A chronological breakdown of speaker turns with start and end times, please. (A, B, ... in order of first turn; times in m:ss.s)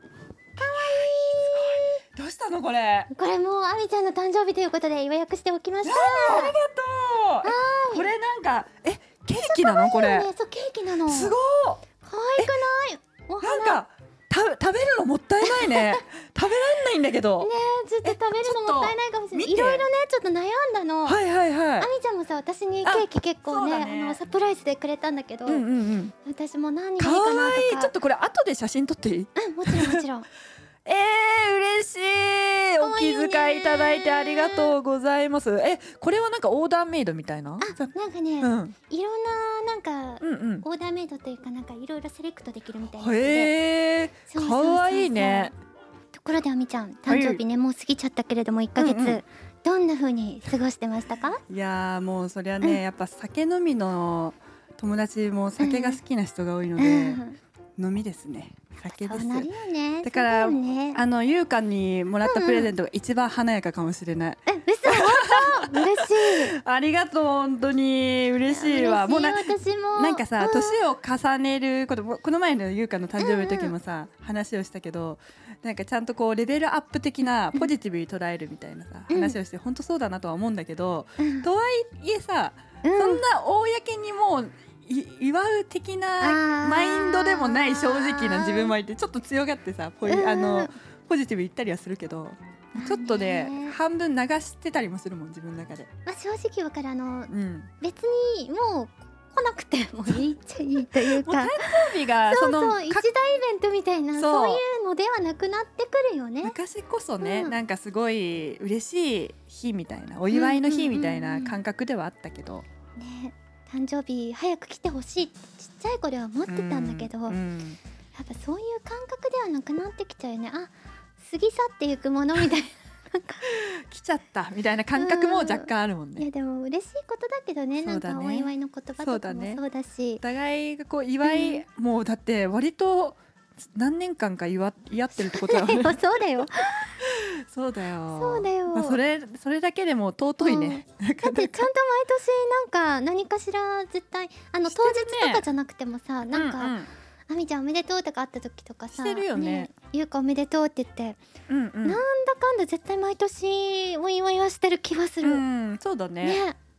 0:00.6-0:02.0 A
0:00.8-0:03.1 B
0:03.1-0:06.6 A
0:05.8-0:10.3 B
0:07.4-0:08.1 A
0:09.4-0:11.4 A
0:11.1-0:11.8 B
0:12.0-0:13.8 A
0:13.4-0:17.5 B
0:15.4-0:16.0 A
0:17.4-0:21.2 A
0:18.0-0:19.9 B
0:21.0-0:21.9 B
0:21.8-0:25.6 A
0:22.8-0:24.2 B
0:25.5-0:26.1 B
0:26.2-0:27.9 A
0:27.0-0:30.0 B
0:29.4-0:30.3 A
0:30.9-0:38.8 B
0:32.8-0:34.7 A
0:37.6-0:43.5 A
0:40.2-0:40.7 B
0:43.0-0:45.5 B
0:44.3-0:45.5 A
0:46.1-0:51.4 A
0:47.1-0:47.4 B
0:48.8-0:49.2 B
0:51.5-0:57.2 B
0:55.6-0:56.0 A
0:56.8-0:57.4 A
0:57.8-0:59.5 B
0:59.0-1:01.0 A
1:00.0-1:35.9 B
1:02.2-1:02.7 A
1:04.5-1:06.6 A
1:08.5-1:10.8 A
1:13.2-1:13.7 A
1:19.1-1:19.4 A
1:21.2-1:21.5 A
1:22.8-1:23.2 A
1:26.2-1:28.7 A
1:30.1-1:30.7 A
1:32.8-1:33.8 A
1:36.1-1:46.6 A
1:37.3-1:37.7 B
1:40.9-1:43.1 B
1:44.2-1:44.6 B
1:46.4-1:52.7 B
1:47.2-1:47.5 A
1:50.3-1:51.6 A
1:53.0-1:57.4 A
1:56.5-1:57.8 B
1:58.2-2:03.4 A
2:03.4-2:06.3 B
2:05.0-2:10.2 A
2:07.8-2:08.5 B
2:09.0-2:09.6 B
2:10.2-2:16.0 B
2:11.2-2:11.6 A
2:15.2-2:17.0 A
2:17.0-2:21.7 B
2:18.1-2:19.0 A
2:20.4-2:26.8 A
2:24.7-2:25.5 B
2:26.3-2:26.9 B
2:27.3-2:31.2 A
2:28.9-2:29.7 B
2:31.5-2:32.0 B
2:31.8-2:35.4 A
2:35.2-2:36.4 B
2:36.2-2:36.6 A